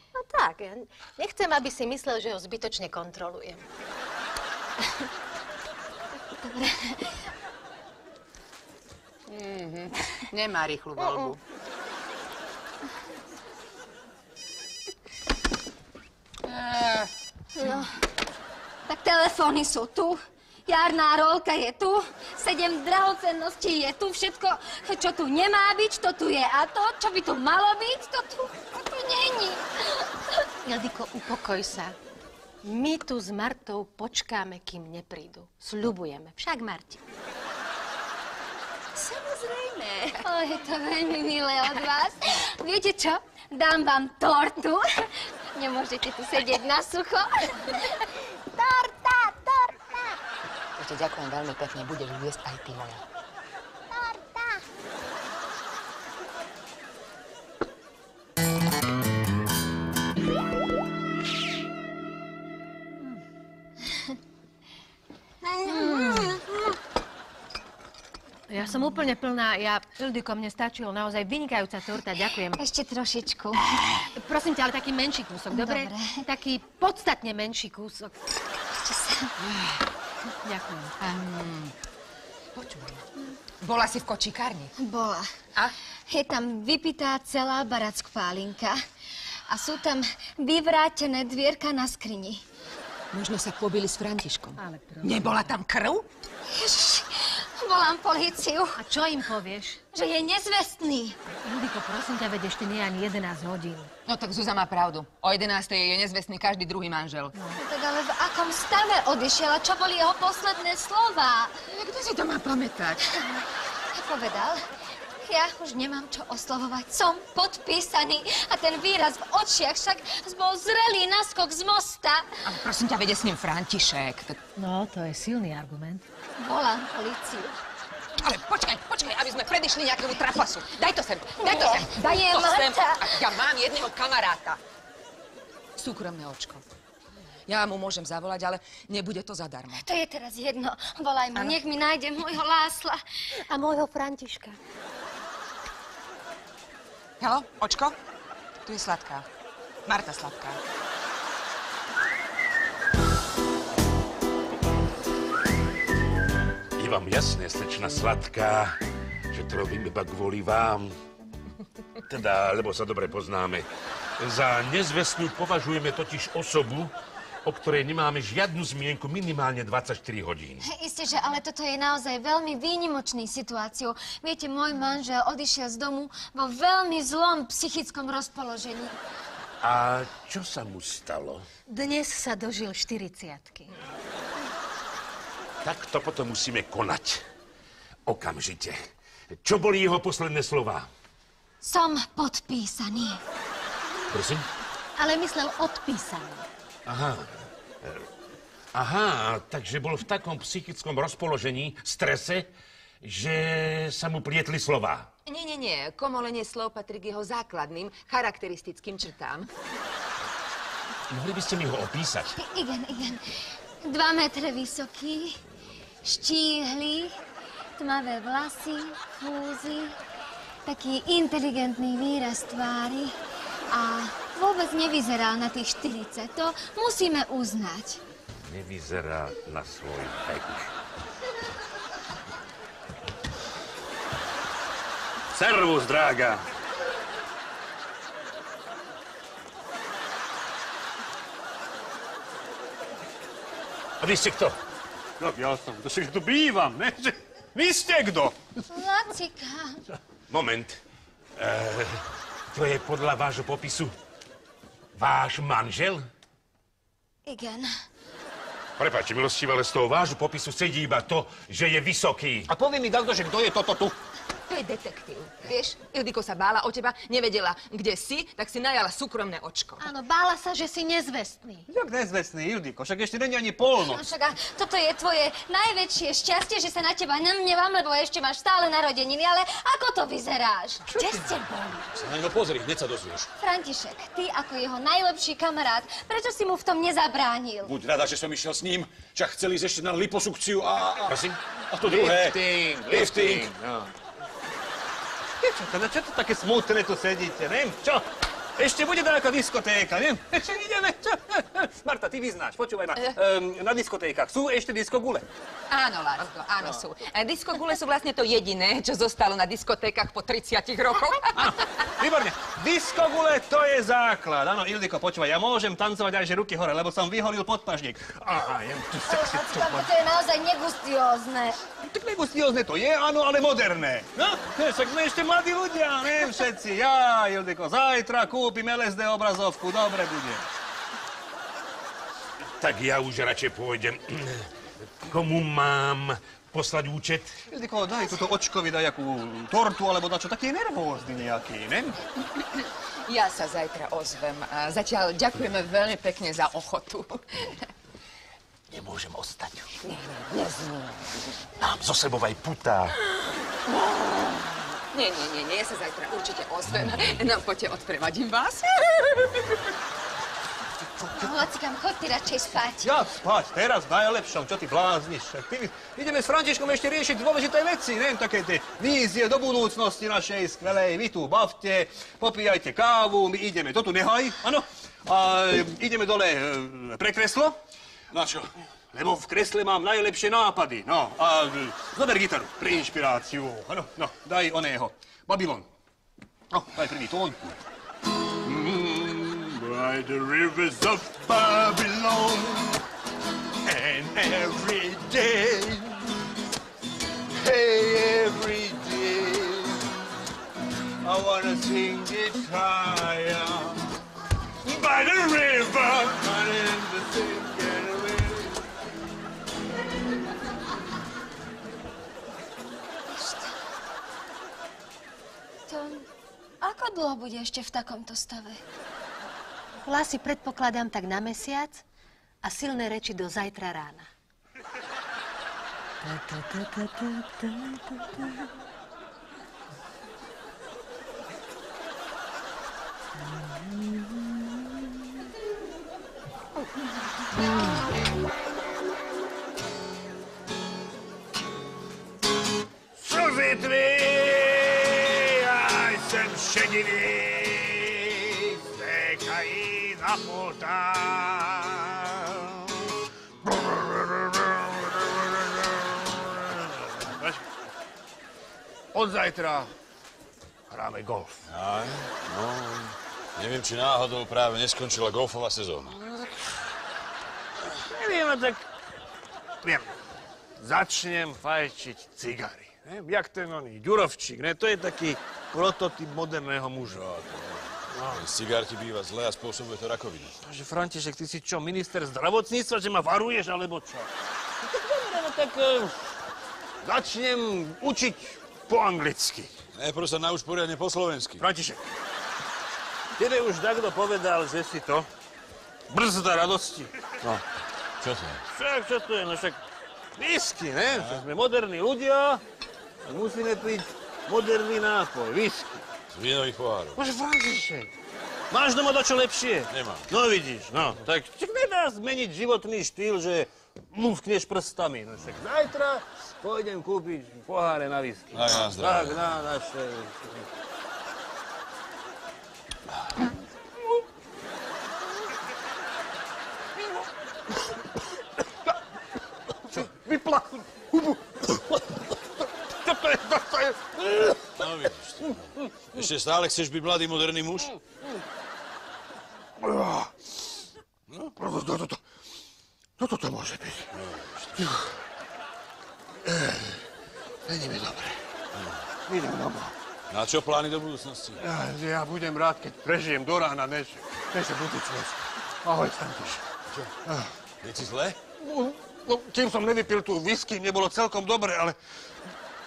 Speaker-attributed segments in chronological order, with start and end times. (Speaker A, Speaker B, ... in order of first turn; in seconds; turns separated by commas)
Speaker A: 0.1-3.6, Speaker B: 6.4-7.0, Speaker C: 9.3-11.4, Speaker C: 16.4-17.1, Speaker B: 17.6-17.9, Speaker B: 18.9-30.1, Speaker A: 30.6-31.9, Speaker A: 32.6-37.0, Speaker C: 39.0-40.2, Speaker B: 40.2-48.0, Speaker C: 50.8-53.0, Speaker B: 65.6-66.4, Speaker C: 65.6-66.4, Speaker A: 68.5-72.6, Speaker B: 72.6-73.8, Speaker A: 74.1-78.1, Speaker B: 75.5-76.1, Speaker B: 78.8-79.3, Speaker C: 79.4-79.8, Speaker A: 80.4-81.0, Speaker C: 81.0-81.7, Speaker C: 82.5-83.0, Speaker C: 83.6-84.7, Speaker B: 84.8-85.3, Speaker B: 86.1-88.8, Speaker B: 89.5-92.4, Speaker C: 93.1-96.0, Speaker A: 94.6-95.5, Speaker B: 96.5-98.8, Speaker A: 98.8-99.8, Speaker B: 99.9-101.2, Speaker A: 101.3-103.9, Speaker C: 104.0-107.3, Speaker B: 107.5-111.5, Speaker C: 111.7-113.4, Speaker B: 113.9-114.6, Speaker B: 115.2-122.3, Speaker C: 122.5-124.4, Speaker A: 124.6-126.0, Speaker B: 126.4-127.6, Speaker C: 128.2-134.6, Speaker B: 131.4-133.2, Speaker C: 135.8-136.6, Speaker C: 137.5-139.8, Speaker B: 139.8-143.0, Speaker A: 143.5-144.6, Speaker C: 147.2-147.9, Speaker C: 148.6-149.3, Speaker C: 149.8-150.6, Speaker D: 156.8-158.8, Speaker D: 159.3-160.9, Speaker D: 162.0-163.7, Speaker D: 164.2-166.9, Speaker D: 167.4-170.6, Speaker B: 170.6-179.0, Speaker D: 179.6-181.4, Speaker A: 181.7-183.7, Speaker D: 185.6-187.2, Speaker D: 188.1-188.9, Speaker D: 189.4-190.9, Speaker B: 191.6-193.2, Speaker D: 194.1-194.4, Speaker A: 195.0-196.5, Speaker D: 196.8-197.3, Speaker D: 198.7-202.5, Speaker D: 203.0-205.1, Speaker C: 205.2-209.5, Speaker D: 211.1-212.3, Speaker B: 212.3-213.2, Speaker B: 213.8-215.4, Speaker B: 216.0-217.1, Speaker B: 217.8-220.0, Speaker B: 220.6-223.2, Speaker B: 223.7-228.0, Speaker D: 228.4-230.7, Speaker E: 235.3-236.4, Speaker D: 244.0-244.6, Speaker E: 245.2-248.3, Speaker B: 248.7-249.8, Speaker D: 250.3-250.8, Speaker D: 251.4-252.0, Speaker D: 252.5-253.9, Speaker D: 254.9-256.0, Speaker B: 257.2-257.7, Speaker D: 258.8-262.5, Speaker E: 262.5-264.0, Speaker C: 264.5-269.9, Speaker A: 269.8-271.7, Speaker E: 271.7-274.0, Speaker B: 273.9-282.0, Speaker E: 280.9-281.4, Speaker F: 281.9-283.3, Speaker B: 283.4-287.7, Speaker F: 287.6-291.2, Speaker D: 291.1-291.4, Speaker F: 291.7-293.5, Speaker E: 291.8-293.9, Speaker E: 295.4-298.1, Speaker E: 298.6-305.3, Speaker C: 305.7-311.5, Speaker E: 311.4-319.9, Speaker B: 319.1-321.6, Speaker E: 321.8-330.4, Speaker D: 332.6-334.5, Speaker D: 335.1-337.4, Speaker E: 337.5-342.0, Speaker C: 342.4-347.7, Speaker D: 348.7-349.7, Speaker C: 349.8-351.3, Speaker F: 351.6-352.9, Speaker C: 353.7-354.3, Speaker C: 354.9-359.7, Speaker B: 361.1-362.9, Speaker E: 362.8-377.6, Speaker F: 378.1-378.5, Speaker E: 378.9-385.7, Speaker E: 386.5-387.4, Speaker E: 388.4-392.8, Speaker E: 393.6-396.0, Speaker E: 397.4-399.8, Speaker F: 398.2-399.0, Speaker F: 401.1-403.7, Speaker E: 401.2-401.7, Speaker E: 404.7-408.5, Speaker F: 405.3-405.6, Speaker F: 406.3-407.0, Speaker B: 413.1-413.6, Speaker B: 415.7-416.1, Speaker B: 416.6-418.6, Speaker A: 419.8-421.8, Speaker A: 422.4-424.1, Speaker E: 443.0-452.7, Speaker E: 453.4-457.5, Speaker E: 458.9-459.7, Speaker E: 460.7-461.4, Speaker F: 461.5-466.0, Speaker E: 465.9-466.7, Speaker E: 467.8-468.7, Speaker E: 469.6-470.0, Speaker E: 470.6-477.0, Speaker F: 476.8-480.4, Speaker E: 477.9-478.2, Speaker E: 480.4-484.1, Speaker E: 484.6-486.1, Speaker E: 486.8-489.5, Speaker F: 489.7-491.4, Speaker E: 491.4-491.9, Speaker E: 493.2-495.1, Speaker E: 495.9-497.4, Speaker F: 498.0-498.4, Speaker E: 498.5-499.6, Speaker E: 500.2-502.4, Speaker F: 500.9-501.3, Speaker E: 503.0-505.9, Speaker F: 506.1-507.0, Speaker E: 506.9-507.9, Speaker E: 508.5-520.5, Speaker F: 509.7-510.1, Speaker F: 518.3-519.3, Speaker E: 526.8-527.8, Speaker E: 529.7-534.7, Speaker F: 534.6-537.7, Speaker E: 535.3-535.6, Speaker E: 539.6-540.1, Speaker E: 541.4-542.0, Speaker E: 543.0-543.9, Speaker F: 543.9-544.6, Speaker E: 544.6-544.9, Speaker E: 546.2-546.8, Speaker E: 547.5-548.2, Speaker F: 548.5-548.8, Speaker E: 549.1-549.7, Speaker F: 550.1-551.4, Speaker E: 551.4-556.5, Speaker E: 557.0-557.3, Speaker F: 557.6-558.2, Speaker E: 558.4-561.8